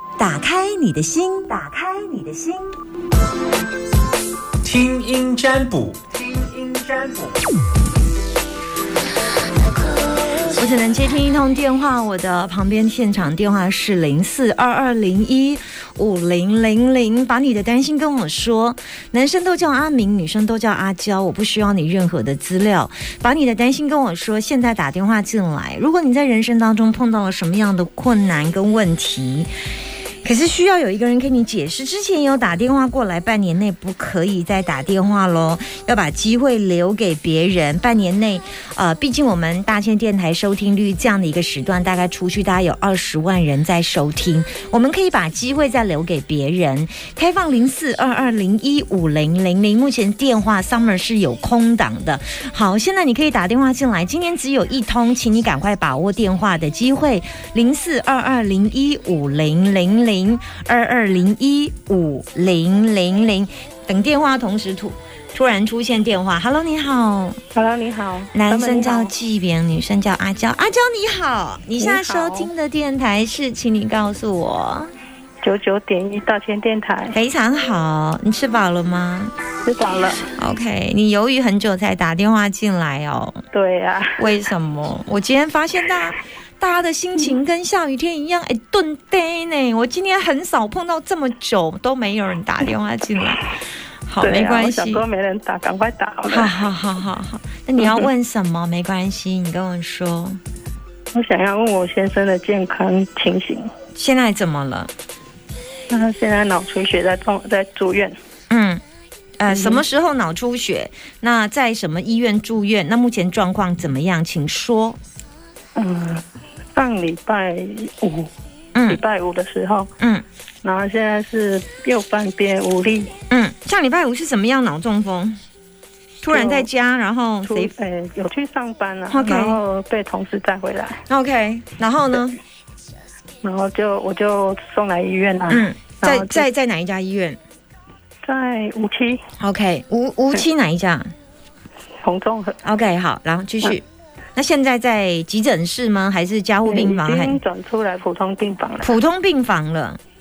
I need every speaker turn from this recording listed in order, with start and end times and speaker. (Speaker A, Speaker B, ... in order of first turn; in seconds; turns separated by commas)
Speaker A: 0.2-2.8, Speaker B: 4.6-7.4, Speaker A: 10.5-29.5, Speaker A: 30.2-67.4, Speaker C: 67.5-69.1, Speaker A: 68.3-74.9, Speaker C: 71.8-72.5, Speaker C: 75.4-77.2, Speaker A: 77.1-79.3, Speaker C: 79.6-80.2, Speaker A: 80.4-83.4, Speaker C: 83.5-84.2, Speaker A: 84.2-93.5, Speaker A: 94.0-95.0, Speaker C: 94.2-96.5, Speaker A: 96.2-100.4, Speaker C: 101.1-103.7, Speaker A: 103.9-104.9, Speaker C: 105.9-108.1, Speaker A: 108.5-108.8, Speaker A: 109.4-115.0, Speaker C: 109.5-109.8, Speaker C: 115.7-118.3, Speaker A: 118.7-119.0, Speaker C: 118.8-119.9, Speaker A: 120.0-120.2, Speaker C: 120.6-123.1, Speaker A: 123.3-125.4, Speaker A: 126.2-127.7, Speaker C: 126.3-126.7, Speaker C: 127.4-131.0, Speaker A: 129.1-129.6, Speaker A: 131.1-132.4, Speaker C: 133.4-136.5, Speaker A: 135.5-137.4, Speaker C: 138.2-139.2, Speaker A: 139.4-141.1, Speaker C: 142.0-142.6, Speaker A: 142.6-143.8, Speaker A: 144.3-147.4, Speaker C: 146.6-148.9, Speaker A: 148.8-150.0